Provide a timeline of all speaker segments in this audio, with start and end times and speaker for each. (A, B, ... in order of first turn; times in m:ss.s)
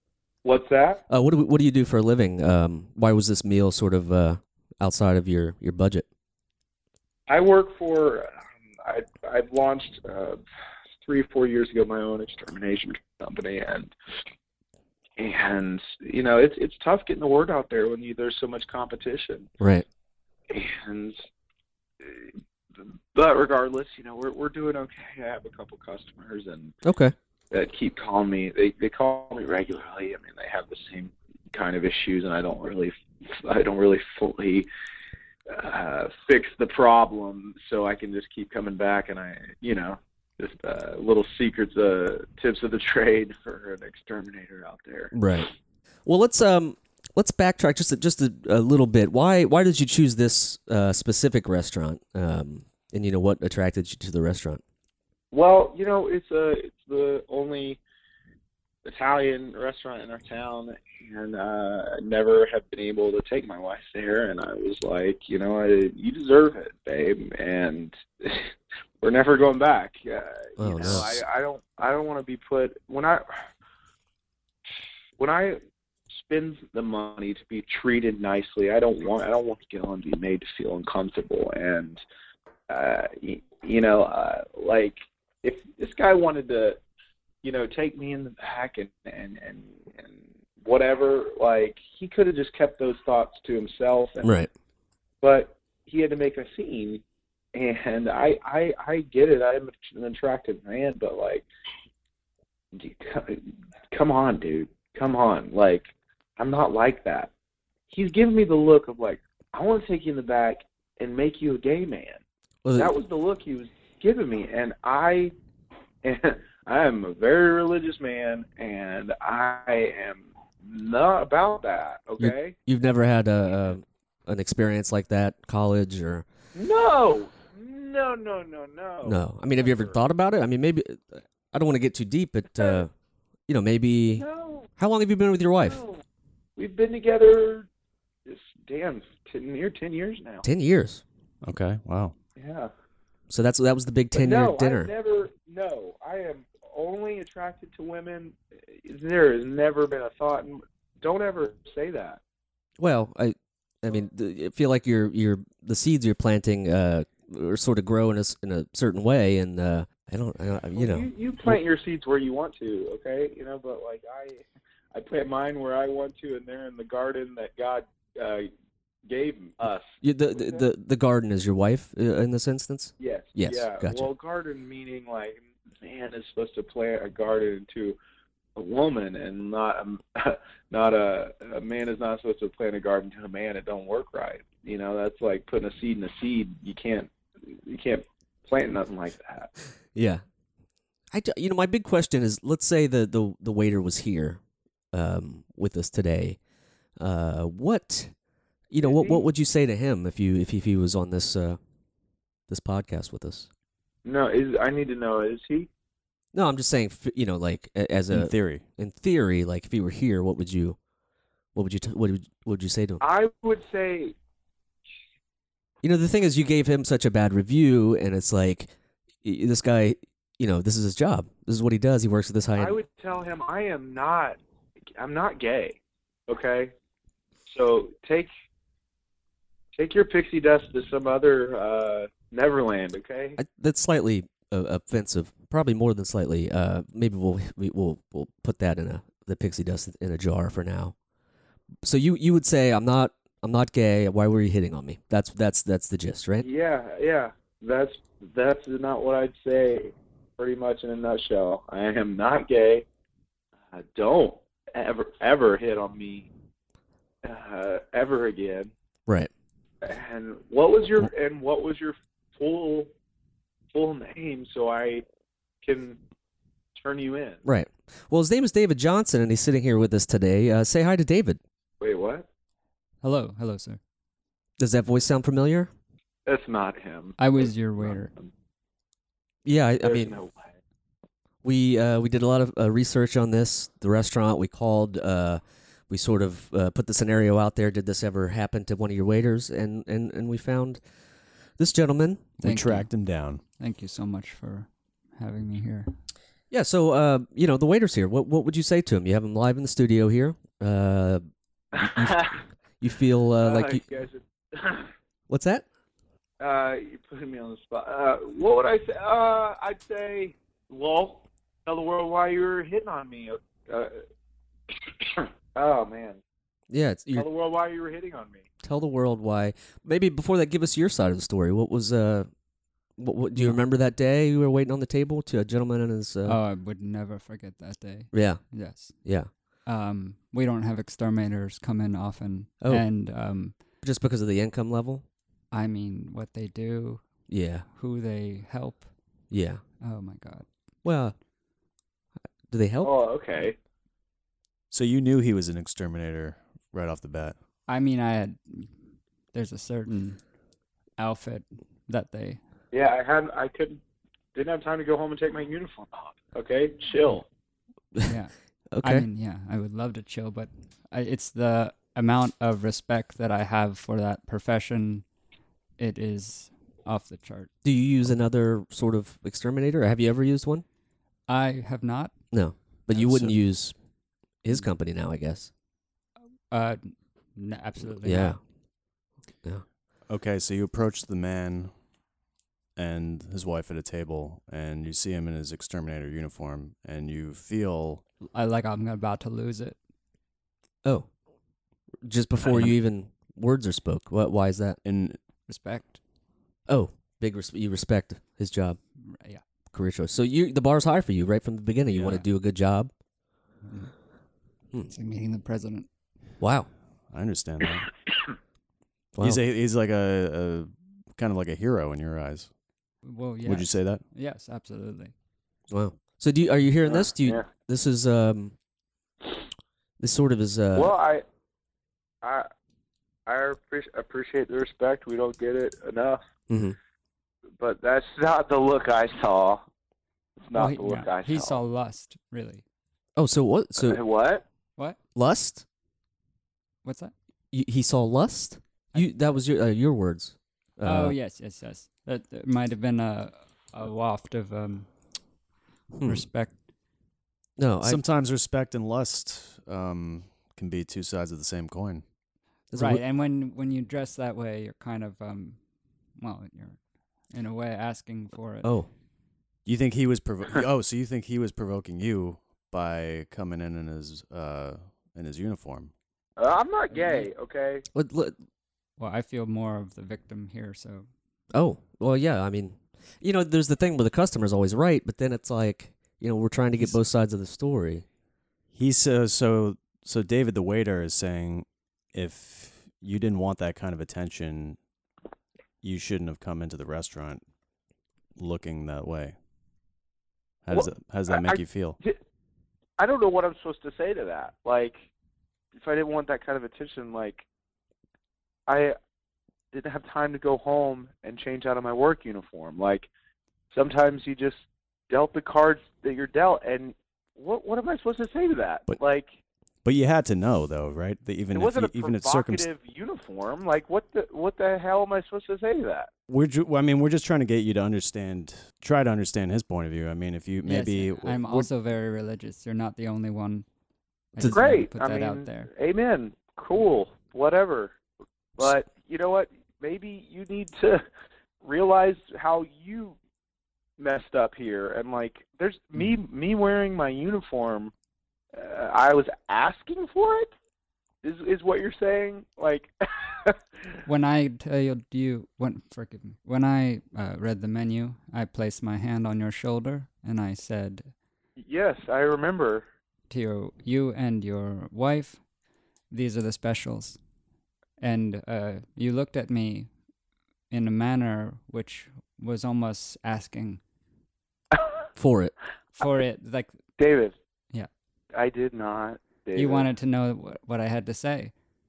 0:00.4-0:01.0 A
0:01.1-0:06.1 B
0:07.3-0:10.4 A
0:11.0-0:13.9 A
0:15.2-0:19.5 A
0:19.6-0:19.8 B
0:20.5-0:21.2 A
0:22.0-0:22.3 A
0:23.1-0:26.7 A
0:26.8-0:27.2 B
0:27.5-0:34.7 A
0:35.5-0:45.1 A
0:45.1-0:45.5 B
0:46.0-0:54.6 B
0:55.3-0:57.8 A
0:58.8-1:13.2 A
1:10.6-1:11.2 B
1:15.2-1:15.6 A
1:16.1-1:22.0 A
1:22.7-1:26.8 A
1:27.4-1:34.3 A
1:34.2-1:34.5 B
1:35.2-1:37.0 A
1:37.5-1:41.4 A
1:42.7-1:47.3 A
1:47.9-1:52.2 A
1:52.6-1:52.9 B
1:52.8-1:55.3 A
1:56.0-2:02.6 A
2:02.2-2:06.2 B
2:06.6-2:10.0 A
2:09.0-2:12.9 B
2:12.6-2:12.8 A
2:13.5-2:14.2 B
2:14.2-2:14.7 A
2:14.8-2:15.8 B
2:15.6-2:16.0 A
2:16.6-2:17.7 A
2:18.3-2:20.4 A
2:20.4-2:21.0 B
2:21.4-2:22.1 C
2:22.4-2:22.7 A
2:23.3-2:24.9 B
2:24.1-2:32.2 A
2:32.8-2:41.6 B
2:40.8-2:48.5 A
2:49.1-2:50.6 A
2:50.0-2:54.1 B
2:53.0-2:58.0 A
2:58.6-3:09.5 A
3:10.0-3:10.2 B
3:11.1-3:14.4 B
3:14.9-3:16.4 B
3:17.0-3:18.1 B
3:18.7-3:21.6 B
3:18.8-3:19.2 A
3:22.5-3:23.5 B
3:24.0-3:25.7 A
3:26.3-3:30.8 B
3:28.1-3:28.6 C
3:31.6-3:33.0 B
3:33.0-3:34.1 A
3:35.8-3:42.8 B
3:42.6-3:44.4 A
3:45.0-3:46.7 A
3:47.5-3:48.3 A
3:49.8-3:53.4 A
3:53.4-4:01.0 B
4:01.8-4:06.5 B
4:06.4-4:12.9 A
4:13.7-4:16.3 A
4:17.2-4:18.7 A
4:19.8-4:22.9 A
4:23.7-4:25.0 A
4:25.6-4:26.0 A
4:26.8-4:27.4 A
4:27.4-4:31.4 B
4:31.8-4:32.3 A
4:33.0-4:33.8 D
4:34.6-4:35.7 B
4:36.3-4:37.3 A
4:37.2-4:38.1 D
4:37.8-4:38.3 A
4:39.4-4:40.2 B
4:39.8-4:40.5 A
4:41.4-4:50.8 B
4:51.6-4:52.3 B
4:52.4-4:53.4 C
4:52.4-4:52.9 D
4:53.6-4:56.0 D
4:56.5-5:01.2 B
5:01.7-5:02.4 A
5:01.8-5:02.3 B
5:02.8-5:03.8 B
5:03.4-5:04.9 A
5:05.3-5:05.7 B
5:06.4-5:14.0 A
5:14.8-5:16.2 A
5:16.7-5:17.3 B
5:17.1-5:18.5 A
5:18.6-5:22.3 B
5:23.0-5:26.4 B
5:26.2-5:33.6 D
5:28.1-5:29.3 B
5:32.6-5:32.9 B
5:33.8-5:35.0 B
5:35.5-5:37.1 D
5:37.3-5:37.7 B
5:37.7-5:38.9 D
5:39.3-5:39.6 B
5:39.8-5:40.5 D
5:40.8-5:41.2 B
5:42.5-5:42.9 B
5:42.8-5:43.6 A
5:44.7-5:47.4 C
5:47.7-5:48.8 D
5:49.3-5:50.2 D
5:51.0-5:52.4 D
5:52.7-5:53.8 A
5:54.4-5:57.3 A
5:58.0-6:05.1 D
5:58.7-5:59.1 B
6:05.8-6:07.5 D
6:07.6-6:10.6 B
6:11.3-6:12.2 D
6:12.3-6:13.8 B
6:13.0-6:13.3 D
6:14.4-6:15.5 B
6:16.5-6:18.4 D
6:18.0-6:18.4 B
6:20.1-6:21.7 C
6:22.8-6:28.0 C
6:28.3-6:29.8 D
6:30.8-6:31.1 B
6:32.0-6:34.8 B
6:34.8-6:35.2 C
6:35.5-6:36.0 D
6:36.7-6:38.8 B
6:39.0-6:39.4 D
6:39.7-6:42.9 B
6:41.9-6:42.2 C
6:43.6-6:43.9 D
6:44.9-6:45.9 D
6:46.4-6:46.7 B
6:47.1-6:47.9 C
6:49.2-6:49.4 B
6:49.2-6:52.5 C
6:53.0-6:55.1 D
6:53.4-6:54.0 C
6:55.7-6:58.6 B
6:56.8-6:57.5 A
7:00.0-7:00.9 B
7:00.8-7:01.2 A
7:02.2-7:02.5 A
7:03.3-7:06.2 A
7:06.5-7:06.8 B
7:07.6-7:09.7 A
7:10.4-7:11.6 A
7:10.5-7:12.6 D
7:13.2-7:14.0 B
7:13.8-7:14.4 A
7:15.2-7:15.6 B
7:16.8-7:17.1 D
7:17.5-7:21.2 B
7:20.8-7:24.9 D
7:25.9-7:26.3 B
7:26.0-7:26.6 D
7:27.6-7:28.0 B
7:27.8-7:32.0 C
7:32.7-7:33.0 B
7:32.7-7:35.6 D
7:36.2-7:36.8 D
7:37.3-7:38.7 D
7:38.6-7:38.9 B
7:39.7-7:45.9 C
7:46.4-7:47.8 A
7:46.9-7:47.3 D
7:47.9-7:48.4 B
7:49.0-7:51.1 D
7:51.5-7:58.0 B
7:58.7-8:04.8 C
8:05.8-8:07.4 C
8:08.4-8:09.4 C
8:10.6-8:12.0 C
8:10.7-8:12.2 A
8:13.0-8:15.0 A
8:15.8-8:17.4 A
8:18.7-8:19.0 A
8:19.7-8:23.1 A
8:23.7-8:29.3 A
8:29.8-8:32.7 C
8:31.5-8:36.1 A
8:36.3-8:41.7 C
8:40.6-8:43.7 D
8:44.3-8:45.7 D
8:44.5-8:48.0 A
8:48.6-8:51.0 A
8:51.6-8:53.2 A
8:54.0-8:57.9 A
8:58.5-9:00.5 A
9:01.2-9:03.6 A
9:04.1-9:11.1 D
9:11.6-9:12.9 A
9:13.3-9:15.4 D
9:16.1-9:17.2 D
9:18.0-9:19.9 D
9:20.7-9:23.8 D
9:25.2-9:25.5 B
9:26.0-9:26.8 D
9:27.0-9:27.4 A
9:28.3-9:29.9 A
9:29.6-9:31.5 D